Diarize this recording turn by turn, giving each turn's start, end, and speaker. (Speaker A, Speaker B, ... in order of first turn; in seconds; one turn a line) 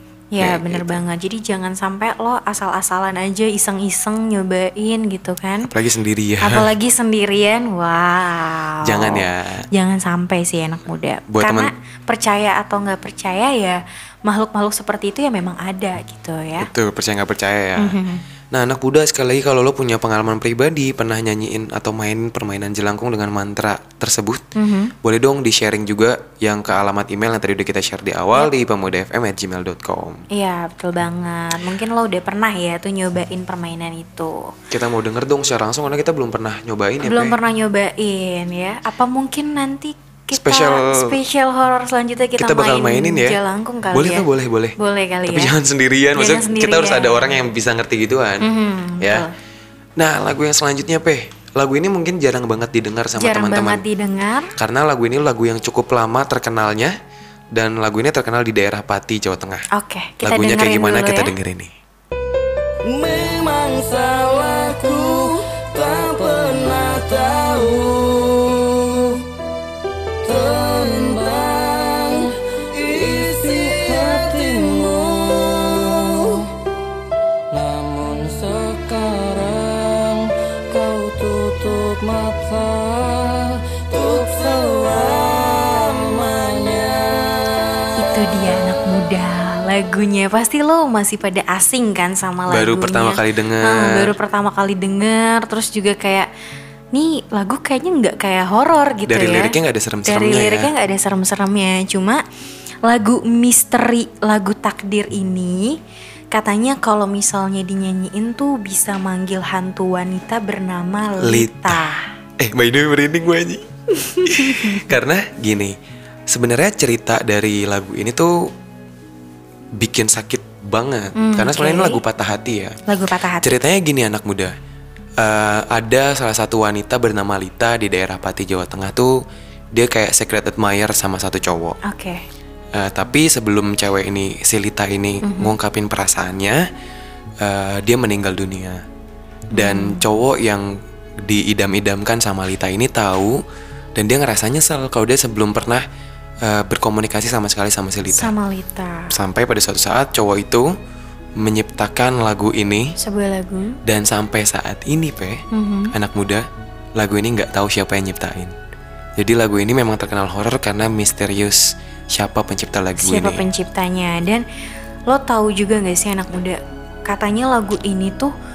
Speaker A: 0.3-5.7
Speaker B: 0.4-1.0
Speaker B: 5.7-6.7
Speaker A: 6.4-16.7
Speaker B: 8.8-9.7
Speaker B: 11.3-11.7
Speaker B: 16.6-18.0
Speaker A: 17.8-18.2
Speaker B: 18.5-24.4
Speaker A: 24.6-24.9
Speaker B: 25.0-30.2
Speaker A: 30.3-34.5
Speaker B: 34.7-37.4
Speaker A: 37.0-45.5
Speaker B: 40.3-41.2
Speaker B: 42.4-43.4
Speaker B: 43.9-48.5
Speaker A: 46.1-47.4
Speaker A: 48.4-49.3
Speaker B: 49.0-49.3
Speaker B: 50.0-53.8
Speaker A: 53.2-54.5
Speaker B: 54.6-57.0
Speaker B: 57.5-59.7
Speaker A: 59.7-61.3
Speaker B: 60.2-61.7
Speaker C: 62.8-69.2
Speaker C: 70.2-76.5
Speaker C: 77.5-87.8
Speaker A: 88.0-96.3
Speaker B: 92.5-94.1
Speaker A: 96.9-102.2
Speaker B: 99.1-100.7
Speaker A: 102.8-105.8
Speaker A: 106.3-112.1
Speaker B: 111.2-111.8
Speaker B: 112.4-113.7
Speaker A: 114.0-114.9
Speaker B: 114.2-115.8
Speaker B: 116.3-118.5
Speaker B: 119.8-122.8
Speaker A: 121.2-122.0
Speaker A: 122.9-123.6
Speaker B: 123.4-124.5
Speaker B: 125.2-129.2
Speaker B: 129.7-131.8
Speaker A: 131.8-132.2
Speaker B: 132.7-136.7
Speaker A: 135.2-135.5
Speaker B: 137.4-138.8
Speaker A: 139.5-140.1
Speaker B: 139.5-143.4
Speaker B: 143.9-145.8
Speaker B: 146.4-148.3
Speaker A: 148.1-149.2
Speaker B: 149.1-150.7
Speaker B: 151.4-153.0
Speaker A: 153.0-153.8
Speaker B: 153.8-158.6
Speaker A: 155.5-155.9
Speaker B: 159.2-163.4
Speaker A: 163.0-164.4
Speaker A: 165.1-168.3